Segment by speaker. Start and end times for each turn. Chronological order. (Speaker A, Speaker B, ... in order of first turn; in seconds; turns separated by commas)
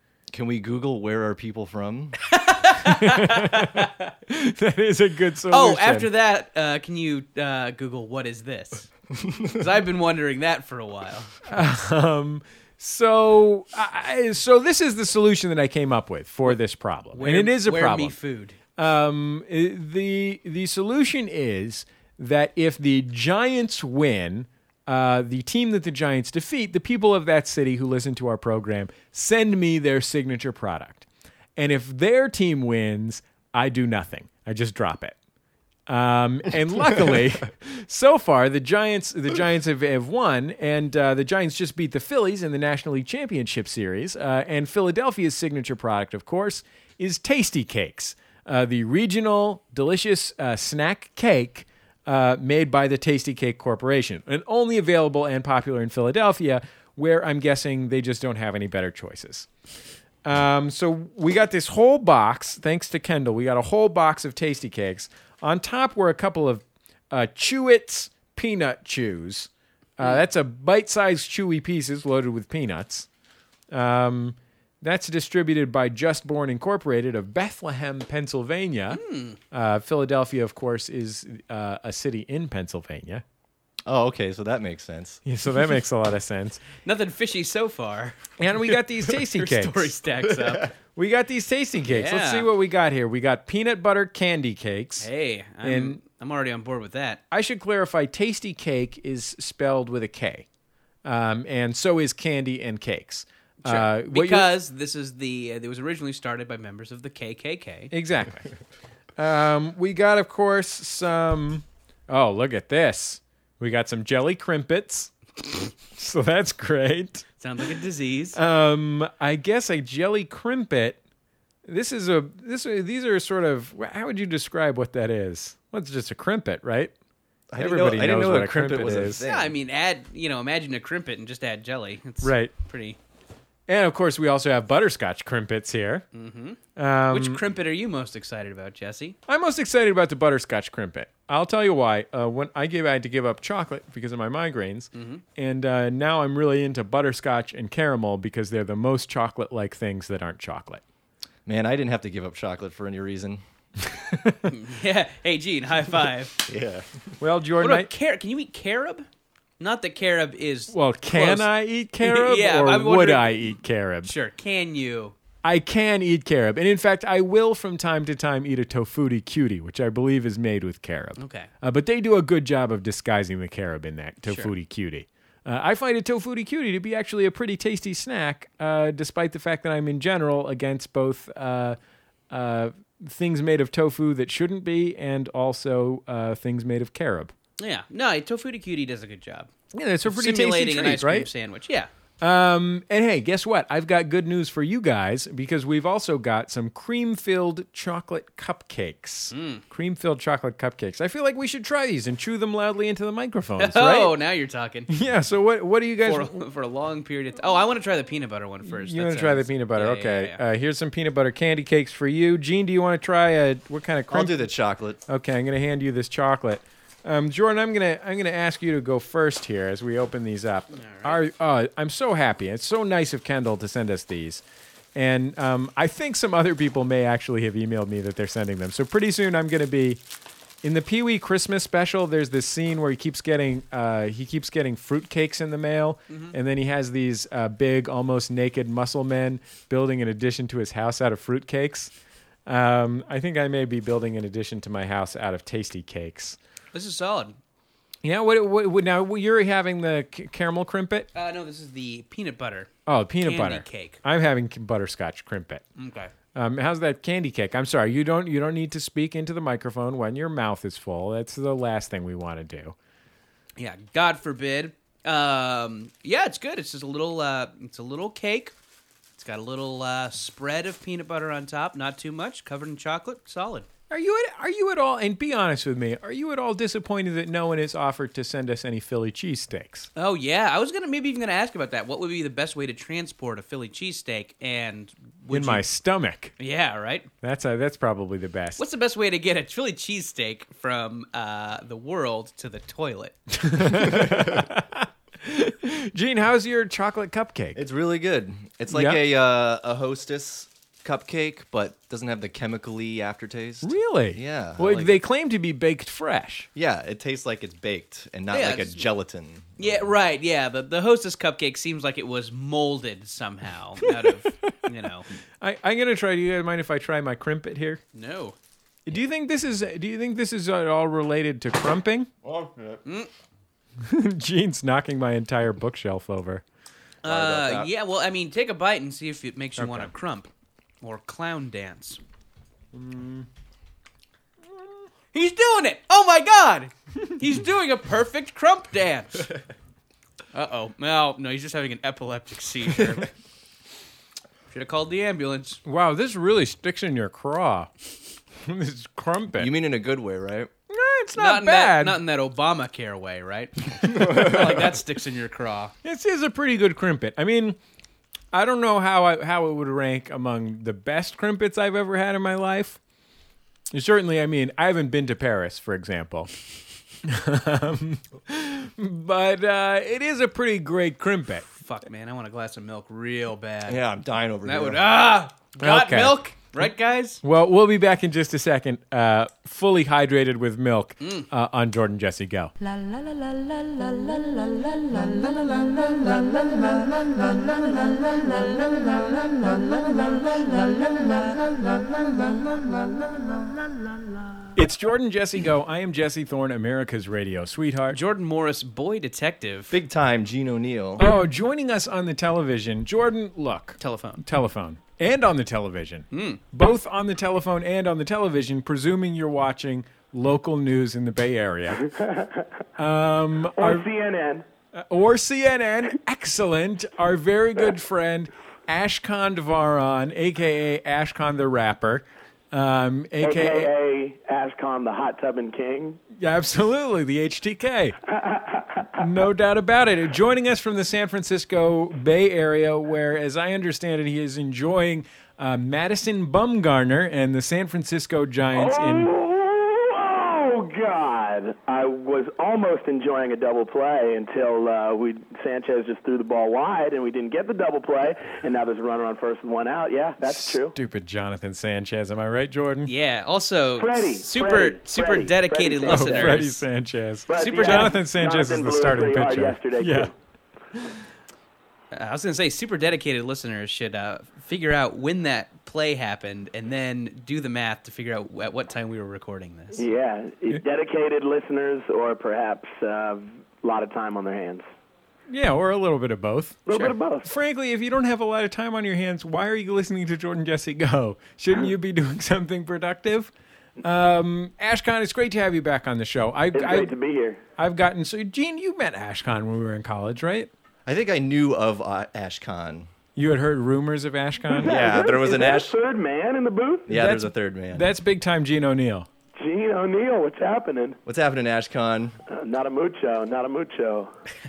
Speaker A: 0.3-2.2, Speaker B: 2.3-4.1, Speaker C: 2.8-6.1, Speaker B: 5.5-8.9, Speaker B: 9.4-11.3, Speaker C: 11.5-18.2, Speaker B: 17.1-18.6, Speaker C: 18.8-35.2, Speaker C: 35.9-59.5, Speaker C: 60.2-73.1, Speaker C: 73.7-83.2, Speaker B: 78.9-79.4, Speaker A: 83.9-85.2, Speaker C: 85.2-86.7, Speaker B: 86.8-90.7, Speaker C: 88.4-90.0, Speaker C: 91.0-95.1, Speaker B: 91.8-92.5, Speaker B: 95.0-97.2, Speaker C: 95.6-96.0, Speaker C: 97.3-100.5, Speaker C: 101.0-104.5, Speaker B: 103.6-107.9, Speaker C: 107.9-108.5, Speaker C: 109.2-117.3, Speaker B: 117.4-118.4, Speaker C: 118.3-121.0, Speaker C: 121.7-126.9, Speaker A: 127.5-129.6, Speaker C: 127.6-129.2, Speaker B: 129.2-133.0, Speaker C: 132.2-132.5, Speaker C: 133.7-136.1, Speaker B: 136.1-139.2, Speaker C: 136.8-137.4, Speaker C: 139.3-150.8, Speaker B: 144.9-145.2, Speaker A: 151.5-154.2, Speaker B: 154.5-156.4, Speaker A: 156.5-157.1, Speaker C: 157.2-157.9, Speaker B: 157.6-159.1, Speaker B: 159.6-161.5, Speaker C: 160.7-164.1, Speaker B: 162.0-163.5, Speaker B: 164.0-165.2, Speaker C: 165.4-181.8, Speaker B: 171.2-171.5, Speaker B: 174.2-174.5, Speaker C: 182.3-187.3, Speaker B: 187.6-189.5, Speaker C: 189.7-191.3, Speaker B: 190.1-191.9, Speaker C: 192.2-204.2, Speaker B: 199.3-199.6, Speaker B: 203.6-204.9, Speaker C: 204.9-206.5, Speaker B: 206.0-210.4, Speaker C: 208.6-214.5, Speaker A: 214.1-215.0, Speaker C: 215.1-224.4, Speaker B: 220.7-221.2, Speaker C: 224.9-230.0, Speaker C: 230.6-241.9, Speaker B: 236.1-236.3, Speaker C: 242.5-246.4, Speaker B: 246.7-247.4, Speaker C: 248.0-251.1, Speaker B: 251.1-252.7, Speaker C: 252.9-255.6, Speaker B: 253.2-254.0, Speaker B: 255.8-256.1, Speaker C: 256.3-262.8, Speaker B: 263.6-268.5, Speaker B: 269.2-273.7, Speaker C: 273.9-279.9, Speaker B: 280.0-285.6, Speaker C: 285.3-286.3, Speaker B: 286.4-287.1, Speaker C: 287.2-288.6, Speaker B: 288.6-293.2, Speaker C: 293.3-297.6, Speaker A: 297.6-305.0, Speaker C: 298.7-299.0, Speaker C: 303.6-306.5, Speaker A: 306.6-309.8, Speaker B: 308.3-308.9, Speaker B: 309.6-315.1, Speaker C: 313.8-314.3, Speaker C: 315.4-317.8, Speaker B: 317.9-318.4, Speaker C: 318.9-322.1, Speaker A: 322.2-322.8, Speaker B: 322.9-323.1, Speaker C: 323.8-326.4, Speaker B: 327.0-330.3, Speaker A: 327.1-327.7, Speaker C: 329.6-329.9, Speaker B: 330.8-332.0, Speaker C: 332.7-333.3, Speaker B: 335.1-339.3, Speaker B: 340.3-343.1, Speaker B: 344.5-345.6, Speaker C: 345.6-347.7, Speaker C: 348.4-349.5, Speaker A: 349.4-350.5, Speaker C: 350.7-352.0, Speaker B: 351.2-355.7, Speaker C: 355.8-357.6, Speaker C: 358.3-362.8, Speaker C: 363.7-366.3, Speaker C: 367.0-371.5, Speaker B: 371.6-373.8, Speaker A: 373.7-374.9, Speaker B: 374.4-377.2, Speaker C: 375.6-376.6, Speaker C: 377.2-382.5, Speaker B: 381.0-381.3, Speaker D: 383.4-388.3, Speaker D: 390.6-391.3, Speaker C: 394.6-398.0, Speaker B: 397.9-399.8, Speaker A: 399.7-401.0, Speaker C: 401.0-411.9, Speaker B: 403.8-404.2, Speaker B: 406.1-406.4, Speaker C: 412.8-413.9, Speaker E: 413.6-414.4, Speaker C: 414.7-423.7, Speaker E: 423.2-426.0, Speaker C: 426.2-428.0, Speaker E: 428.1-428.9, Speaker C: 429.0-439.1, Speaker E: 438.6-450.7, Speaker C: 450.3-452.9, Speaker B: 452.9-456.6, Speaker E: 453.8-456.4, Speaker C: 455.9-460.1, Speaker E: 457.3-460.1, Speaker B: 457.3-457.9, Speaker C: 460.8-461.0, Speaker B: 461.9-469.8, Speaker E: 469.7-474.7, Speaker C: 475.3-476.7, Speaker E: 476.7-477.3, Speaker C: 477.2-483.3, Speaker C: 483.8-486.9, Speaker E: 486.6-487.4, Speaker C: 487.6-490.5, Speaker A: 490.9-492.9, Speaker C: 493.2-494.7, Speaker E: 494.6-496.9, Speaker A: 494.6-495.7, Speaker A: 496.9-497.9, Speaker C: 496.9-499.1, Speaker E: 499.4-501.0, Speaker A: 501.1-502.2, Speaker E: 502.3-504.1